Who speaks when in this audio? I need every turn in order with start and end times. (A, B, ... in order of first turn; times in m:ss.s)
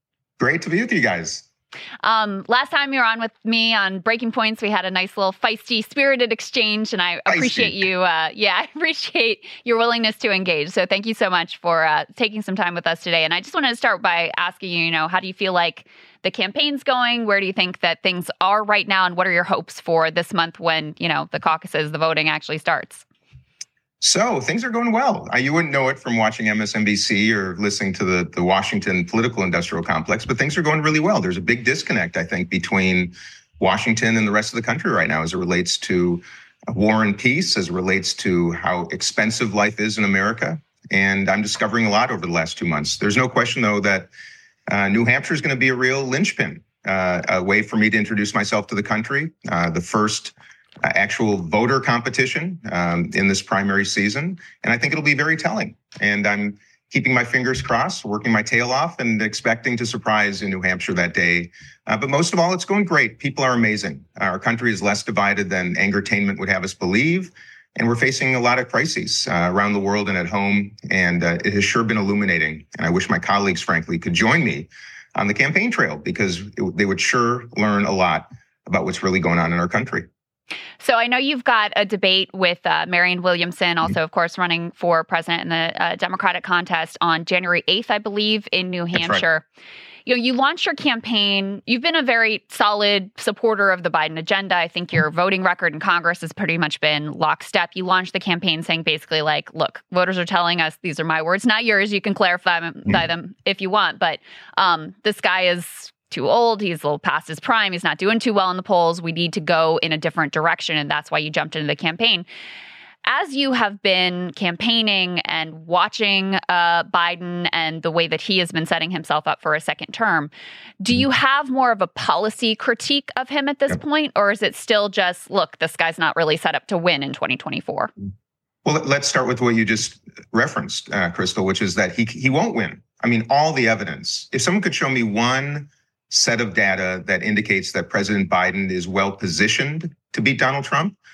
0:00.4-0:01.4 A
0:02.0-0:23.0 B
0:07.3-0:07.7 A
0:24.0-0:44.1 A
0:44.7-1:20.1 A
1:20.8-1:29.4 B
1:28.9-1:29.2 A
1:30.0-1:52.2 B
1:53.0-2:07.9 B
2:08.6-2:21.0 A